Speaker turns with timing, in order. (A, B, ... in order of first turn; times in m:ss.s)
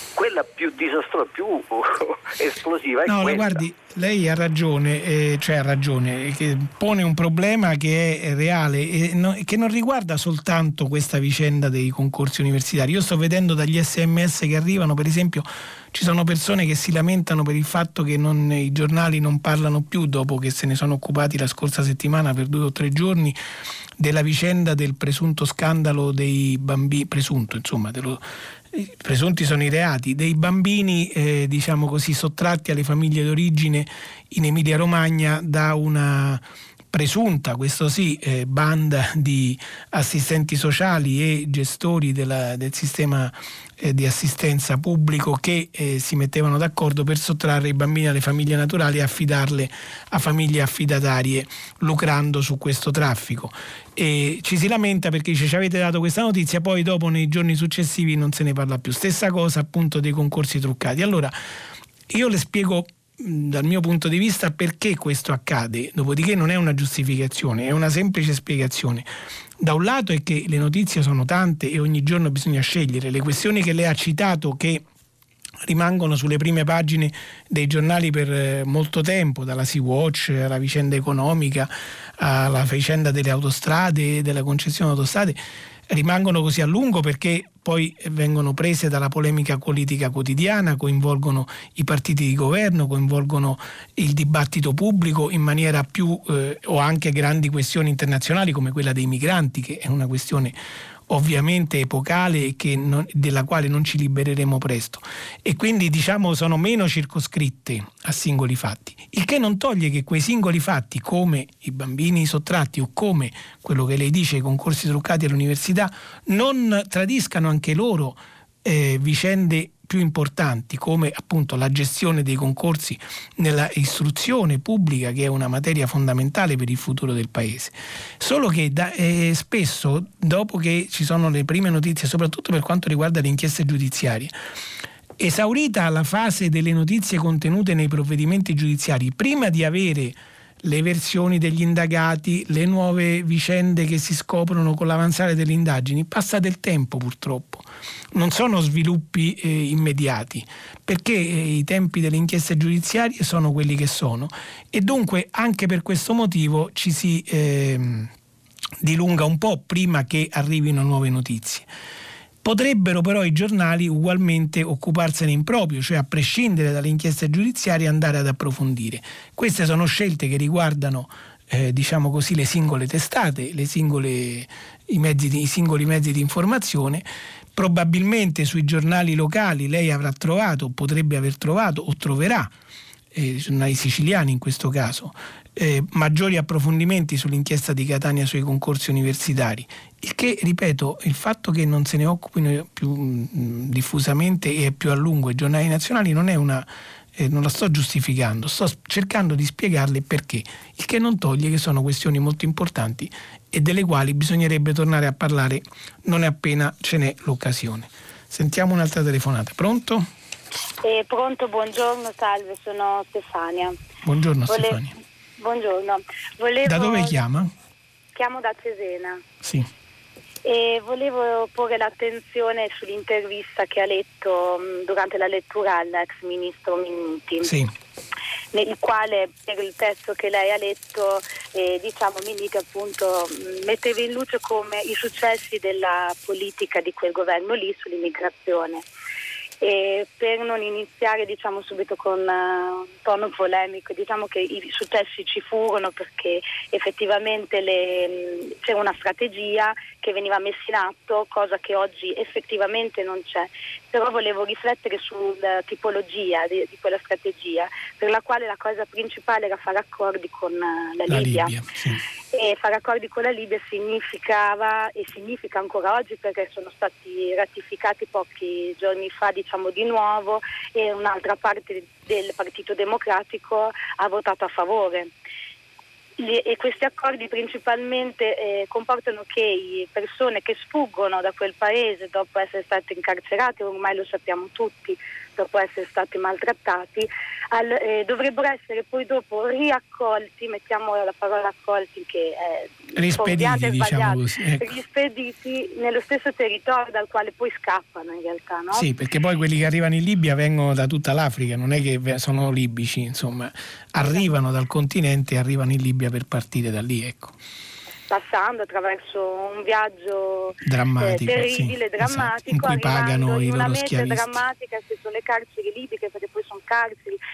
0:00.1-0:03.6 A
0:03.0-0:23.4 B
0:24.0-1:01.3 B
1:02.1-1:09.1 B
1:09.6-1:14.8 B
1:15.7-1:25.4 B
1:25.9-1:40.6 B
1:41.1-2:14.3 B
2:15.2-2:38.1 B
2:38.8-2:41.7 B
2:42.4-3:02.5 B
3:03.1-3:30.0 B
3:30.8-3:33.8 C
3:34.0-3:34.9 B
3:34.5-3:34.8 C
3:35.4-3:37.2 C
3:36.6-3:37.5 B
3:38.1-3:39.2 C
3:39.4-3:39.7 B
3:40.4-3:47.5 C
3:47.4-3:47.7 B
3:48.5-3:58.8 C
3:59.6-4:21.5 C
4:21.1-4:22.0 B
4:22.3-4:35.1 C
4:36.2-4:58.8 C
4:53.0-4:54.7 B
4:58.7-5:07.3 B
5:08.1-5:17.2 C
5:10.6-5:14.4 B